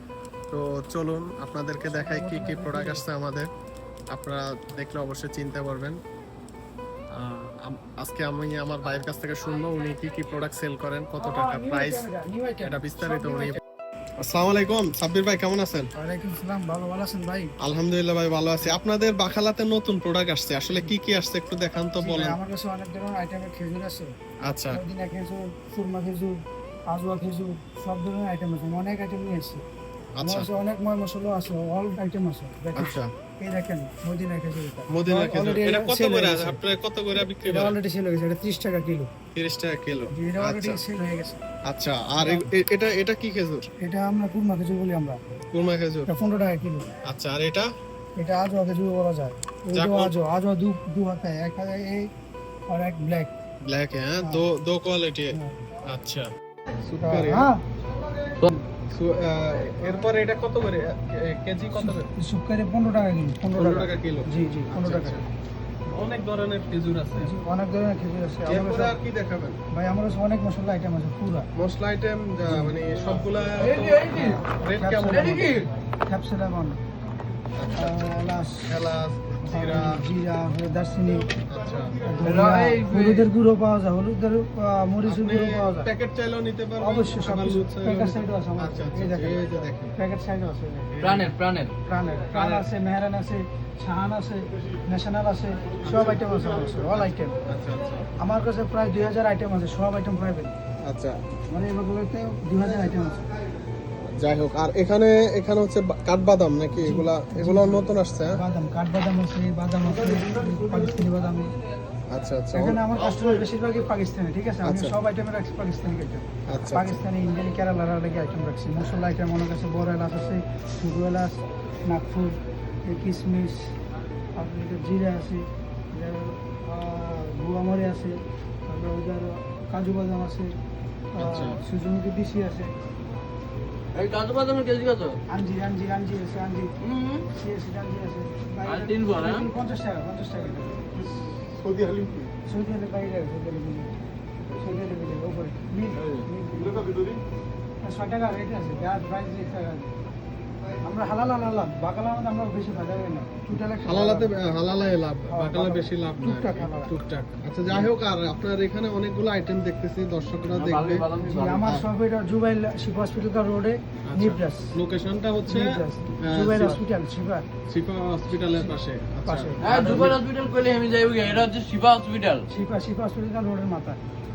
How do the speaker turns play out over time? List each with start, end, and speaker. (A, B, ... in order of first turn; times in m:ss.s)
0:00.5-0:03.5 A
0:01.9-0:03.0 B
0:04.1-0:06.0 A
0:07.1-0:12.1 A
0:11.2-0:13.6 B
0:12.6-0:13.6 A
0:14.2-0:15.9 A
0:16.0-0:17.5 B
0:17.6-0:22.4 A
0:22.0-0:24.1 B
0:24.4-0:24.8 A
0:24.7-0:29.6 B
0:30.2-0:30.5 A
0:30.2-0:36.6 B
0:32.8-0:33.1 A
0:34.9-0:37.8 A
0:37.2-0:39.1 B
0:39.3-0:40.8 A
0:40.1-0:41.4 B
0:41.7-0:43.7 A
0:42.2-0:42.5 B
0:43.8-0:45.2 B
0:45.5-0:46.1 A
0:46.1-0:46.9 B
0:47.1-0:47.7 A
0:48.2-0:52.1 B
0:49.7-0:50.1 A
0:52.7-0:53.3 B
0:53.7-0:56.3 A
0:55.3-0:55.6 B
0:56.9-0:57.5 A
0:57.0-0:57.6 B
0:58.9-1:02.1 A
1:01.8-1:05.2 B
1:03.6-1:05.2 A
1:05.9-1:07.3 A
1:07.2-1:09.0 B
1:08.5-1:09.6 A
1:09.7-1:11.5 B
1:11.6-1:15.3 A
1:12.5-1:12.8 B
1:13.6-1:14.4 C
1:14.2-1:16.8 B
1:15.0-1:15.7 C
1:17.6-1:20.0 A
1:17.8-1:18.9 B
1:19.4-1:21.3 B
1:21.5-1:22.0 A
1:22.0-1:25.9 B
1:22.2-1:23.3 C
1:25.0-1:29.9 A
1:26.8-1:30.9 B
1:30.9-1:31.3 A
1:31.0-1:31.7 C
1:31.8-1:37.4 B
1:32.3-1:32.7 A
1:36.9-1:38.1 A
1:38.2-1:40.6 B
1:40.8-1:41.2 A
1:41.5-1:43.2 B
1:44.2-1:48.4 A
1:46.8-1:51.5 B
1:52.1-1:52.8 A
1:52.5-2:03.7 B
1:54.6-1:55.0 A
1:56.5-1:57.0 A
2:04.4-2:10.5 B
2:11.1-2:12.7 B
2:11.2-2:11.6 A
2:13.9-2:15.2 C
2:15.3-2:16.7 B
2:16.8-2:17.3 C
2:17.3-2:21.0 B
2:18.6-2:19.5 C
2:21.3-2:22.3 A
2:22.4-2:23.9 B
2:24.5-2:27.0 B
2:26.0-2:26.2 C
2:27.8-2:29.9 B
2:30.8-2:34.3 B
2:33.8-2:41.1 A
2:35.3-2:36.9 B
2:40.5-2:41.8 C
2:41.2-2:44.7 B
2:44.1-2:46.8 A
2:45.5-2:47.5 B
2:47.7-2:50.2 A
2:48.5-2:50.2 B
2:49.6-2:52.5 C
2:52.5-2:54.0 B